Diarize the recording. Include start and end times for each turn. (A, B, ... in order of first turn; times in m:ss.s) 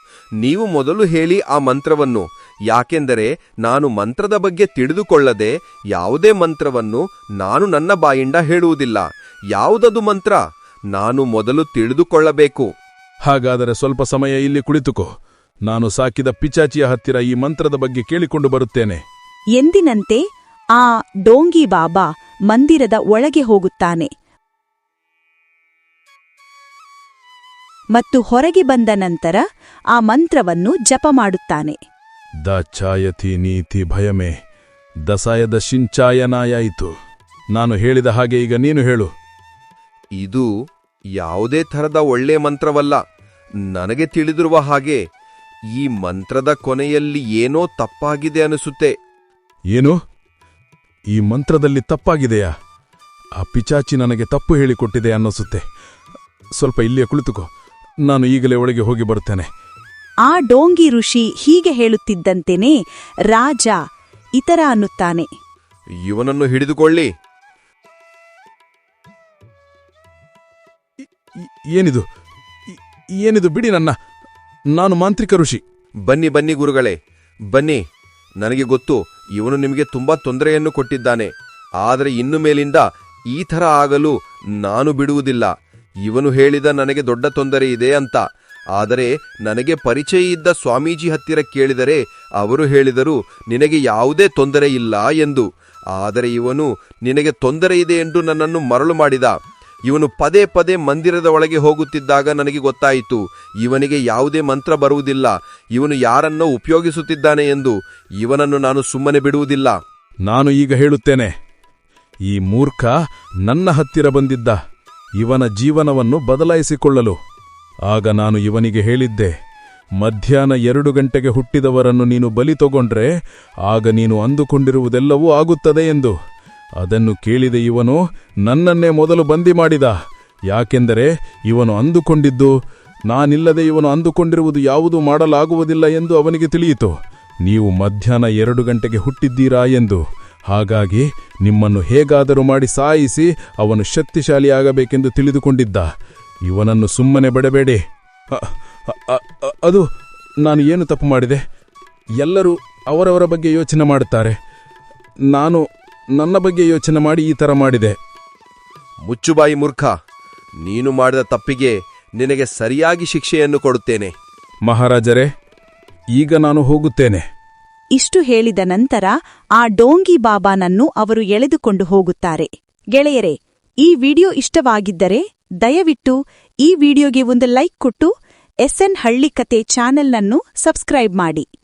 0:00.4-0:10.4 A
0:10.9-0:12.7 A
0:13.2-0:15.1 B
0:15.7-0:19.0 B
0:19.6-0:20.2 C
0:20.8-0:24.1 C
0:27.9-0:29.4 C
0:29.9-0:31.8 C
0:32.4-0:34.3 B
0:35.1-0:36.9 B
0:37.5-0:39.1 B
0:40.2-0:40.5 A
0:41.2-0:43.0 A
0:43.7-0:45.0 A
0:45.7-0:48.9 A
0:49.7-0:50.0 B
0:51.1-0:52.5 B
0:53.4-0:55.6 B
0:56.6-0:57.5 B
0:58.1-0:59.5 B
1:00.2-1:02.8 C
1:03.3-1:03.8 C
1:04.4-1:05.3 C
1:06.0-1:07.1 A
1:11.4-1:12.0 B
1:12.7-1:14.0 B
1:14.7-1:15.6 B
1:16.1-1:17.0 A
1:17.5-1:17.8 A
1:18.4-1:21.3 A
1:21.8-1:25.5 A
1:26.0-1:28.2 A
1:28.8-1:39.4 A
1:39.9-1:49.8 A
1:50.3-1:51.3 B
1:52.3-1:52.9 B
1:53.4-1:54.6 B
1:55.2-1:57.2 B
1:57.9-1:59.3 B
2:00.0-2:03.1 B
2:03.6-2:06.1 B
2:06.8-2:10.0 B
2:10.5-2:12.5 B
2:13.1-2:16.9 B
2:17.4-2:25.9 B
2:26.5-2:27.8 B
2:28.3-2:29.8 B
2:30.4-2:31.4 B
2:32.2-2:34.4 B
2:35.3-2:35.6 B
2:36.2-2:38.0 B
2:39.0-2:39.9 A
2:40.6-2:44.1 A
2:44.6-2:45.3 B
2:46.2-2:47.2 B
2:48.0-2:58.1 C
2:58.6-3:01.5 C